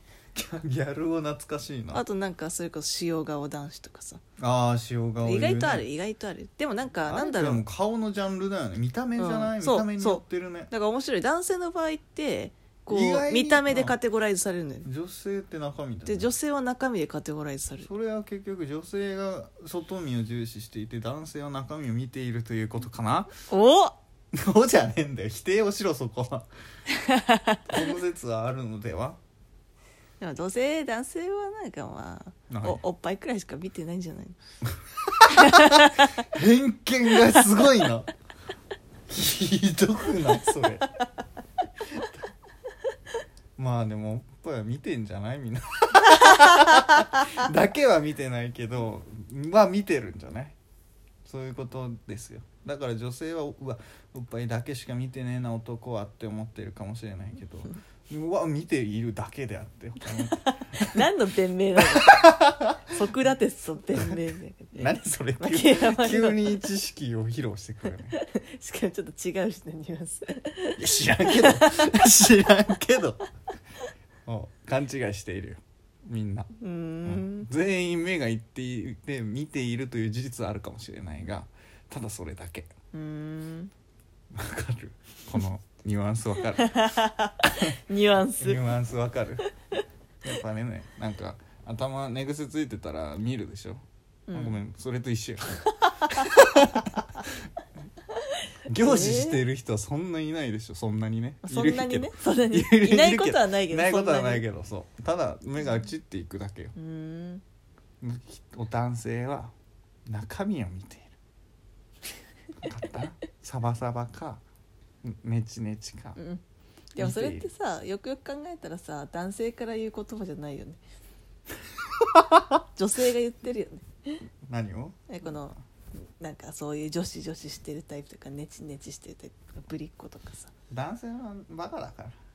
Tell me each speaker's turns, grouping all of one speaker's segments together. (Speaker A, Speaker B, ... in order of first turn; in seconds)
Speaker A: 0.3-2.0, 4.4-5.8, 7.0-10.7, 12.9-13.9, 14.8-16.3, 17.8-23.3, 24.3-26.5, 27.7-29.2, 32.5-32.8, 34.9-38.1, 39.1-41.0, 43.6-50.5, 51.2-61.0, 61.8-62.9, 63.9-64.2, 64.7-68.2, 70.8-73.3, 74.2-76.5, 77.0-82.7, 84.3-86.8, 88.4-89.5, 90.2-97.3, 98.7-106.7, 108.0-109.5, 110.0-111.1, 112.6-114.4, 115.0-116.2, 117.0-117.5, 122.1-122.4, 124.5-125.1, 130.7-132.2
Speaker B: 1.9-4.2, 5.2-7.6, 9.2-14.9, 16.0-17.9, 23.5-23.9, 26.9-27.8, 30.2-34.4, 35.3-36.2, 37.2-37.6, 60.1-62.3, 62.9-66.6, 68.1-71.9, 76.6-77.5, 82.9-83.7, 86.4-88.7, 94.3-94.6, 95.8-96.8, 98.2-99.4, 101.4-104.4, 106.8-107.4, 116.2-116.4, 117.0-120.8, 122.7-124.2, 125.1-125.6, 126.2-130.5